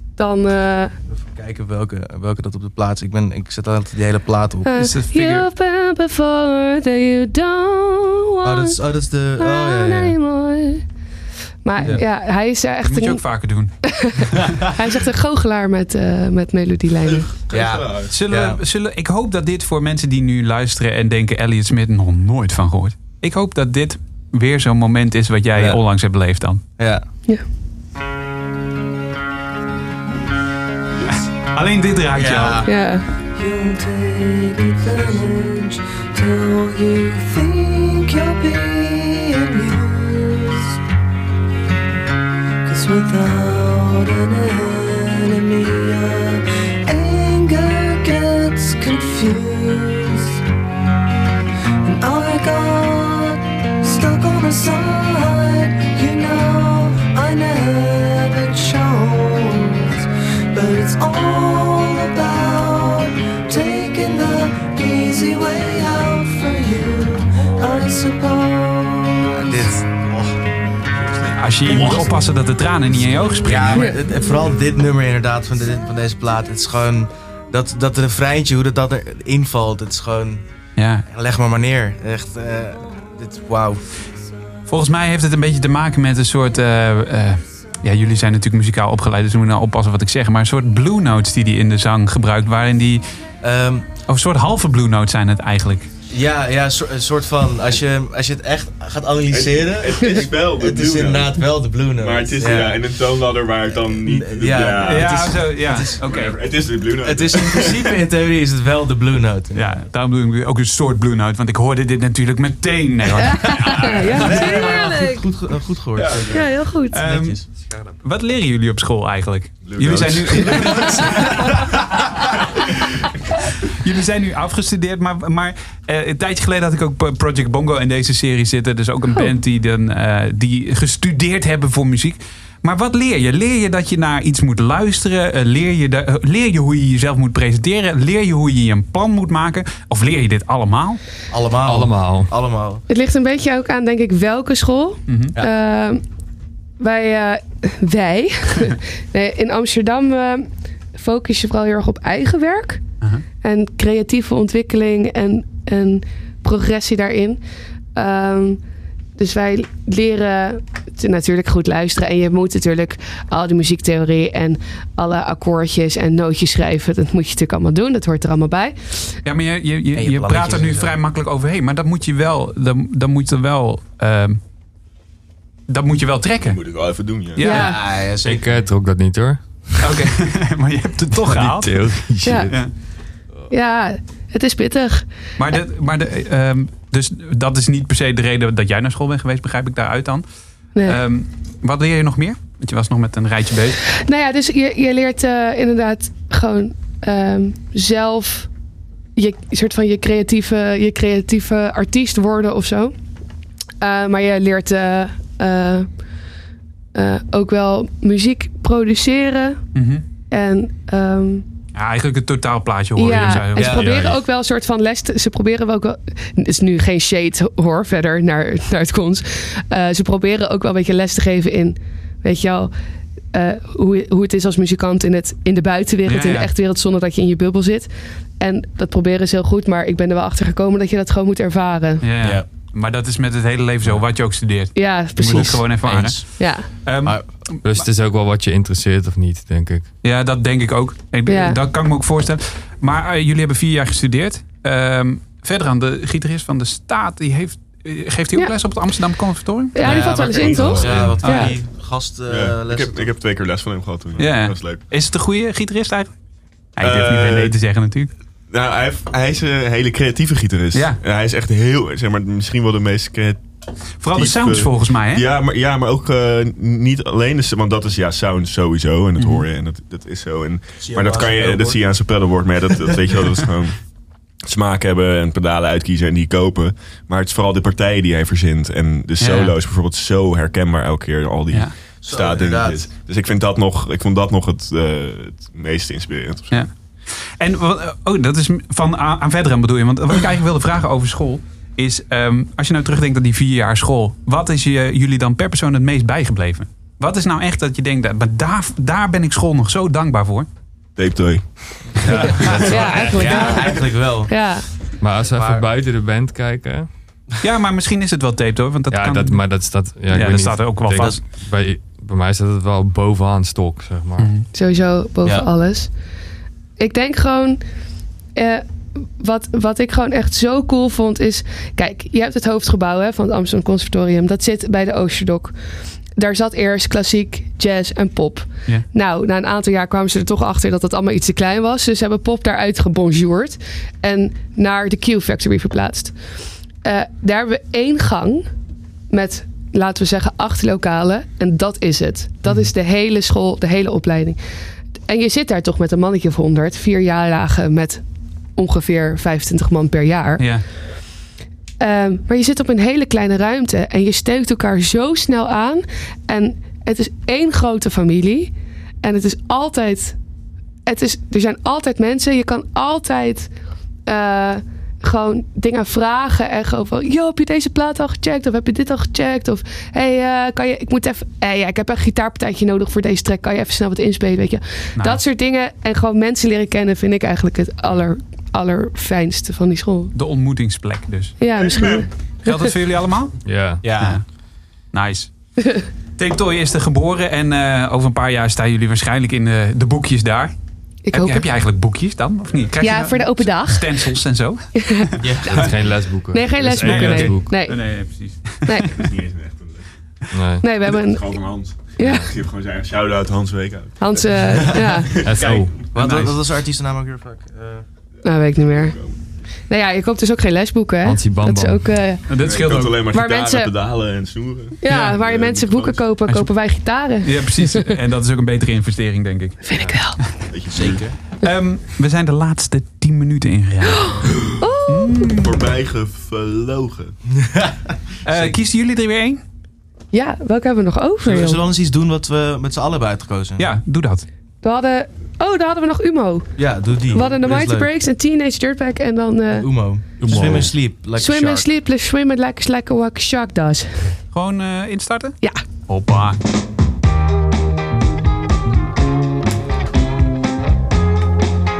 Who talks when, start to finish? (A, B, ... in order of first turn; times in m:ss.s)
0:00.2-0:00.9 A
0:01.1-0:04.7 B
0:04.6-0:08.8 A
0:04.8-0:05.5 C
0:08.4-0:10.2 B
0:09.4-0:10.8 A
0:11.6-0:13.2 A
0:12.8-0:14.4 C
0:13.8-0:17.3 A
0:17.0-0:18.1 D
0:17.5-0:18.6 B
0:18.1-0:26.6 C
0:26.8-0:27.0 B
0:31.1-0:32.7 C
0:32.1-0:32.7 B
0:32.6-0:33.0 A
0:33.3-0:40.8 E
0:42.6-0:50.4 E
0:51.8-1:09.5 E
1:09.4-1:09.9 B
1:11.0-1:12.1 D
1:11.4-1:13.9 C
1:13.4-1:20.4 B
1:20.8-1:21.0 C
1:21.1-1:23.8 B
1:24.7-1:33.0 C
1:33.4-1:33.9 B
1:34.1-1:35.9 C
1:36.1-1:42.8 B
1:39.3-1:45.4 D
1:43.9-1:46.0 B
1:44.8-1:46.3 C
1:46.0-1:48.0 D
1:47.0-1:49.7 B
1:49.5-1:54.5 C
1:53.3-1:57.4 B
1:53.4-1:55.2 A
1:53.7-1:54.6 D
1:56.0-1:56.5 D
1:56.3-1:57.0 A
1:56.9-1:57.4 C
1:58.0-2:01.8 C
1:59.6-2:01.6 D
2:03.6-2:21.0 C
2:21.3-2:22.8 B
2:21.6-2:22.3 F
2:22.9-2:26.0 A
2:25.1-2:25.3 C
2:26.8-2:32.8 A
2:33.4-2:37.4 A
2:37.9-2:38.6 A
2:39.2-2:49.1 A
2:49.2-2:54.4 C
2:49.9-2:51.0 B
2:55.7-2:56.6 C
2:56.4-2:57.5 D
2:57.3-2:57.8 C
2:57.4-2:57.8 A
2:57.5-2:58.5 B
2:58.2-3:00.0 F
2:59.8-3:02.7 C
3:01.1-3:02.6 F
3:02.2-3:02.5 A
3:03.5-3:05.0 A
3:05.4-3:10.2 C
3:10.8-3:13.8 C
3:14.0-3:18.5 A
3:19.2-3:22.9 A
3:23.8-3:25.9 A
3:26.9-3:29.6 A
3:29.7-3:30.0 C
3:30.3-3:31.4 A
3:31.7-3:34.1 C
3:33.0-3:42.7 A
3:33.5-3:33.9 B
3:43.3-3:52.0 A
3:46.1-3:46.5 C
3:52.0-3:57.8 C
3:52.2-3:52.4 B
3:54.7-3:55.6 A
3:55.2-3:56.4 B
3:56.4-3:56.7 A
3:57.0-3:57.3 B
3:57.6-3:59.9 F
4:00.0-4:10.5 C
4:01.3-4:01.6 A
4:09.7-4:11.5 A
4:09.8-4:13.1 B
4:09.9-4:11.2 D
4:10.9-4:11.1 F
4:11.2-4:11.5 C
4:12.3-4:14.8 D
4:14.2-4:16.1 C
4:16.8-4:18.1 C
4:16.8-4:17.5 D
4:18.5-4:23.4 D
4:20.7-4:21.0 C
4:24.0-4:25.2 C
4:24.1-4:33.8 D
4:29.2-4:29.4 C
4:30.8-4:31.9 B
4:34.4-4:46.6 D
4:39.2-4:39.5 C
4:42.0-4:42.8 B
4:46.5-5:00.5 C
5:01.0-5:02.9 D
5:02.0-5:04.3 B
5:02.6-5:04.6 A
5:05.0-5:06.9 F
5:05.3-5:05.6 B
5:07.4-5:11.2 C
5:08.9-5:14.3 F
5:10.9-5:11.2 B
5:14.2-5:14.5 C
5:14.5-5:15.9 A
5:16.8-5:17.6 A
5:18.3-5:25.5 A
5:26.2-5:36.2 A
5:36.8-5:38.5 A
5:39.1-5:44.4 A
5:45.1-5:48.0 A
5:48.6-5:50.4 A
5:50.4-5:50.6 C
5:51.8-6:00.2 A
6:00.8-6:03.5 A
6:04.1-6:20.1 A
6:20.1-6:21.4 C
6:21.4-6:22.7 A
6:21.6-6:22.1 D
6:22.4-6:24.2 C
6:23.4-6:23.8 F
6:23.8-6:24.2 B
6:24.9-6:25.3 C
6:26.2-6:30.5 C
6:31.0-6:31.4 A
6:31.1-6:35.7 C
6:32.8-6:33.9 A
6:34.8-6:38.0 A
6:35.2-6:35.7 B
6:35.4-6:37.5 F
6:36.8-6:38.9 C
6:38.6-6:38.9 A
6:38.9-6:39.9 D
6:40.3-6:40.6 F
6:40.6-6:42.2 A
6:40.8-6:45.5 D
6:42.0-6:42.2 F
6:44.0-6:45.1 A
6:45.2-6:45.7 F
6:45.4-6:46.4 C
6:45.9-6:47.8 B
6:48.2-6:49.0 A
6:48.6-6:49.2 D
6:49.7-6:52.2 A
6:51.0-6:52.0 F
6:52.3-6:53.0 C
6:52.4-6:56.0 D
6:53.1-6:53.7 A
6:54.8-6:57.8 A
6:54.9-6:55.1 C
6:57.2-6:59.6 C
6:59.6-7:00.2 A
7:00.5-7:01.0 D
7:00.7-7:01.1 B
7:01.4-7:04.3 C
7:04.0-7:05.3 A
7:04.9-7:05.5 C
7:05.3-7:07.2 D
7:07.3-7:08.5 B
7:08.2-7:09.4 C
7:10.1-7:11.6 A
7:11.2-7:13.7 B
7:13.6-7:14.2 C
7:14.6-7:16.5 A
7:16.6-7:17.9 B
7:17.1-7:19.7 A
7:19.5-7:21.6 B
7:20.2-7:20.7 F
7:21.2-7:24.1 A
7:24.3-7:26.4 C